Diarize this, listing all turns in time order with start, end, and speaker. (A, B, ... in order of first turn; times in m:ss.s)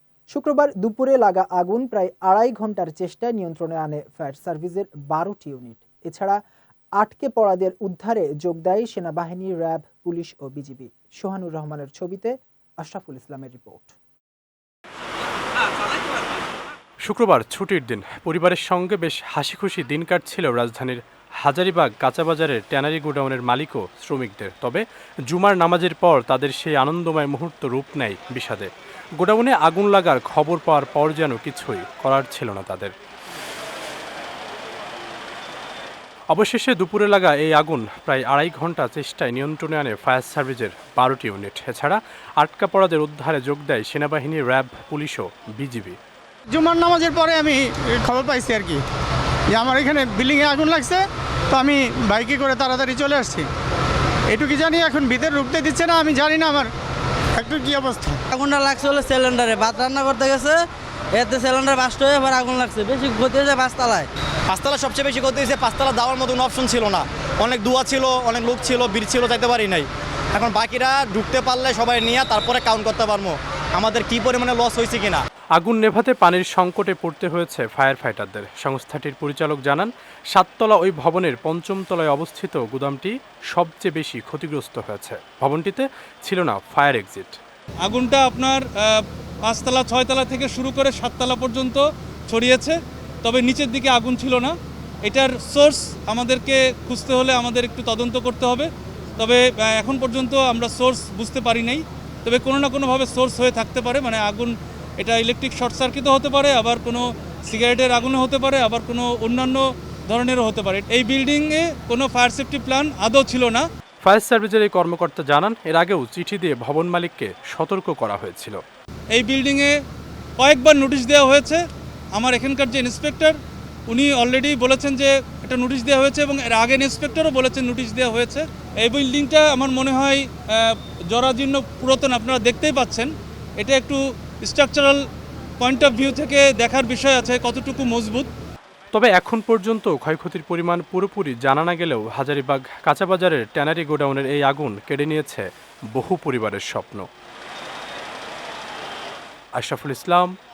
0:00.3-0:06.4 A
0:07.0-0:14.0 A
0:17.0-0:32.9 B
0:36.3-0:46.0 B
0:46.5-0:48.8 C
0:49.5-0:53.5 C
0:54.3-0:56.7 C
0:57.4-0:58.2 C
0:58.3-1:04.1 D
1:04.5-1:15.2 E
1:15.6-1:27.4 B
1:27.8-1:53.7 F
1:54.0-1:58.6 B
1:59.1-1:59.8 F
2:00.4-2:01.6 F
2:02.2-2:03.4 F
2:03.9-2:15.0 F
2:15.6-2:18.3 F
2:18.9-2:27.1 B
2:29.6-2:30.3 B